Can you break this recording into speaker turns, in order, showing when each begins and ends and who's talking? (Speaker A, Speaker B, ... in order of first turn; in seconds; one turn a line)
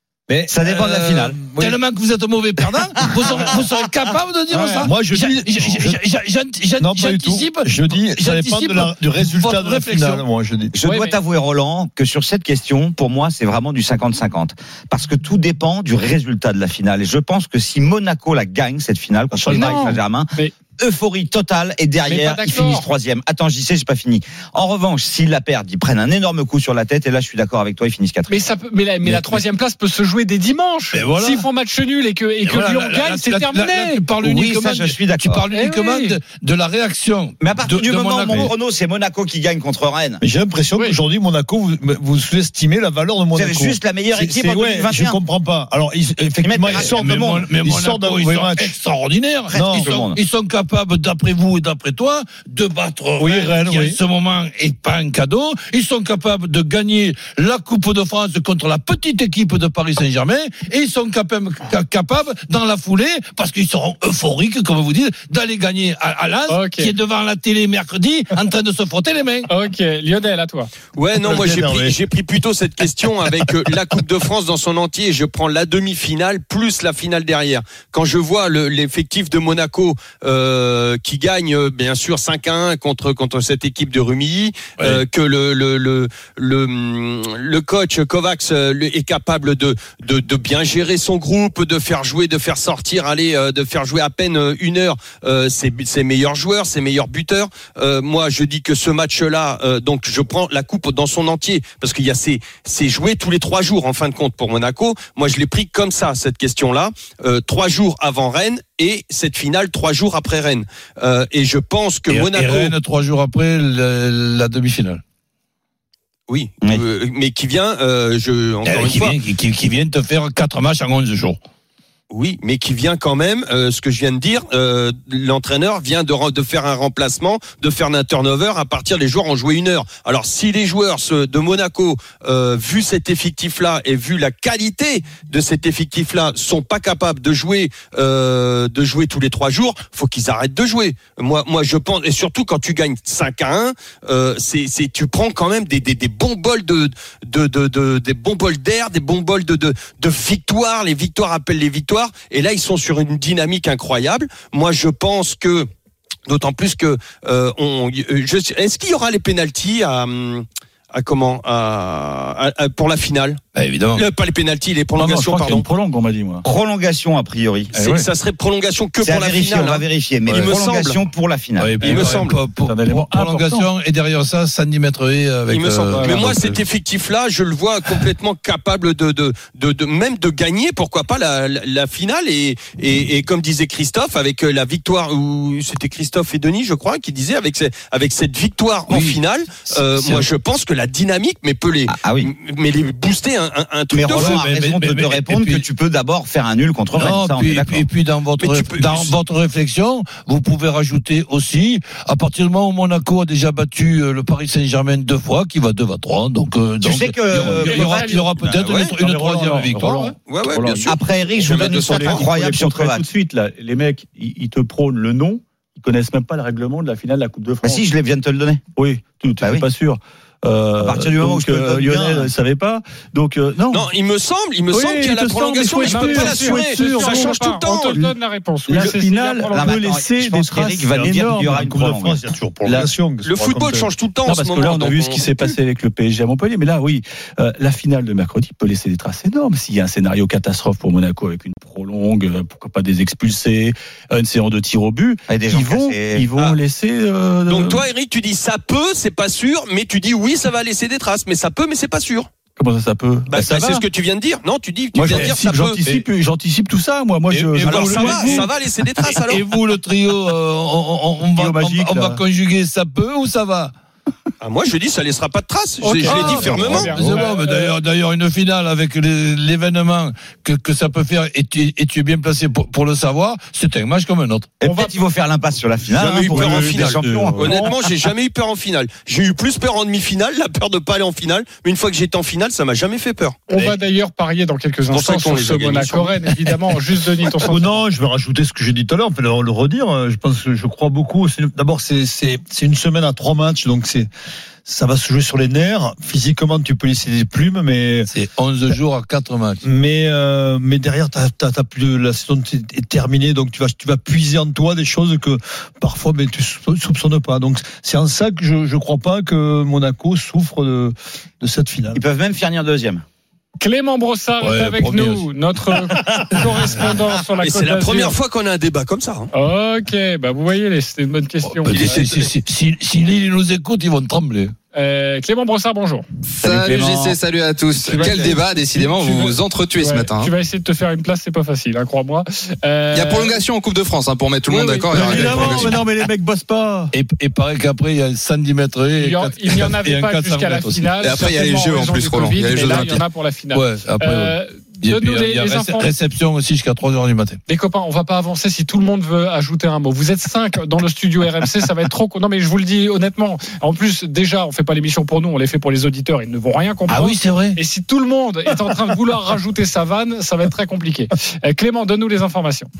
Speaker A: 0.4-1.8
Speaker B: 0.6-10.2
Speaker C: 4.5-4.9
Speaker D: 4.8-6.0
Speaker D: 6.8-10.7
Speaker A: 10.7-28.4
Speaker C: 10.8-11.2
Speaker D: 19.3-19.9
Speaker C: 19.5-20.5
Speaker C: 22.1-22.9
Speaker C: 28.3-34.0
Speaker B: 29.0-29.4
Speaker B: 30.9-31.4
Speaker B: 32.4-38.5
Speaker A: 34.2-35.4
Speaker C: 35.5-36.2
Speaker A: 37.4-40.2
Speaker D: 40.2-48.7
Speaker A: 43.3-45.2
Speaker A: 46.4-47.5
Speaker B: 46.7-69.5
Speaker D: 49.5-50.0
Speaker A: 49.5-50.2
Speaker D: 53.2-54.0
Speaker C: 66.5-66.9
Speaker C: 69.5-70.7
Speaker E: 71.0-112.7
Speaker D: 71.1-72.0
Speaker B: 112.1-115.0
Speaker E: 116.3-119.2
Speaker B: 118.6-121.4
Speaker E: 122.1-155.7
Speaker E: 156.3-163.4
Speaker B: 163.5-164.0
Speaker E: 163.9-165.7
Speaker F: 164.9-166.4
Speaker A: 166.4-167.7
Speaker F: 167.7-168.1
Speaker E: 167.7-171.0
Speaker A: 169.0-172.0
Speaker B: 171.6-176.6
Speaker E: 171.8-172.4
Speaker F: 172.6-173.7
Speaker E: 175.5-194.4
Speaker B: 188.9-190.3
Speaker A: 191.9-192.3
Speaker A: 193.9-197.9
Speaker B: 194.1-195.6
Speaker B: 196.9-210.1
Speaker E: 198.4-199.1
Speaker A: 206.8-208.2
Speaker C: 207.6-208.2
Speaker E: 208.5-208.9
Speaker F: 209.0-217.9
Speaker E: 210.3-212.3
Speaker A: 210.8-213.1
Speaker A: 217.6-218.6
Speaker F: 218.8-223.9
Speaker A: 219.4-219.7
Speaker A: 220.8-222.3
Speaker E: 223.7-228.1
Speaker F: 224.7-227.4
Speaker C: 225.8-229.7
Speaker F: 228.7-231.7
Speaker A: 229.5-232.2
Speaker D: 230.9-233.9
Speaker F: 232.6-232.9
Speaker E: 233.2-235.6
Speaker F: 234.2-247.8
Speaker A: 245.3-246.3
Speaker E: 247.5-252.3
Speaker F: 252.6-253.8
Speaker E: 253.3-255.8
Speaker F: 254.9-258.5
Speaker B: 255.1-256.0
Speaker B: 257.3-258.5
Speaker E: 257.6-259.5
Speaker B: 259.1-263.7
Speaker F: 261.3-262.2
Speaker E: 264.4-267.1
Speaker C: 265.8-267.7
Speaker B: 266.1-274.5
Speaker A: 274.6-277.7
Speaker C: 274.6-274.9
Speaker F: 275.9-277.6
Speaker E: 276.0-283.5
Speaker C: 283.5-287.8
Speaker E: 284.9-286.5
Speaker D: 287.4-294.1
Speaker D: 294.6-298.1
Speaker B: 298.1-299.6
Speaker D: 299.6-312.0
Speaker A: 311.9-313.0
Speaker C: 313.6-318.1
Speaker B: 314.4-315.3
Speaker B: 316.4-316.7
Speaker E: 317.4-319.3
Speaker C: 319.3-322.0
Speaker B: 321.5-324.5
Speaker E: 321.7-322.2
Speaker C: 324.7-326.0
Speaker G: 326.3-330.3
Speaker A: 326.4-327.2
Speaker E: 327.9-328.3
Speaker C: 327.9-333.4
Speaker G: 332.9-335.8
Speaker C: 334.5-335.7
Speaker F: 334.9-336.9
Speaker B: 335.0-335.7
Speaker B: 336.9-341.0
Speaker C: 339.0-345.9
Speaker G: 341.0-343.0
Speaker B: 343.5-347.4
Speaker C: 347.5-362.7
Speaker B: 356.9-357.6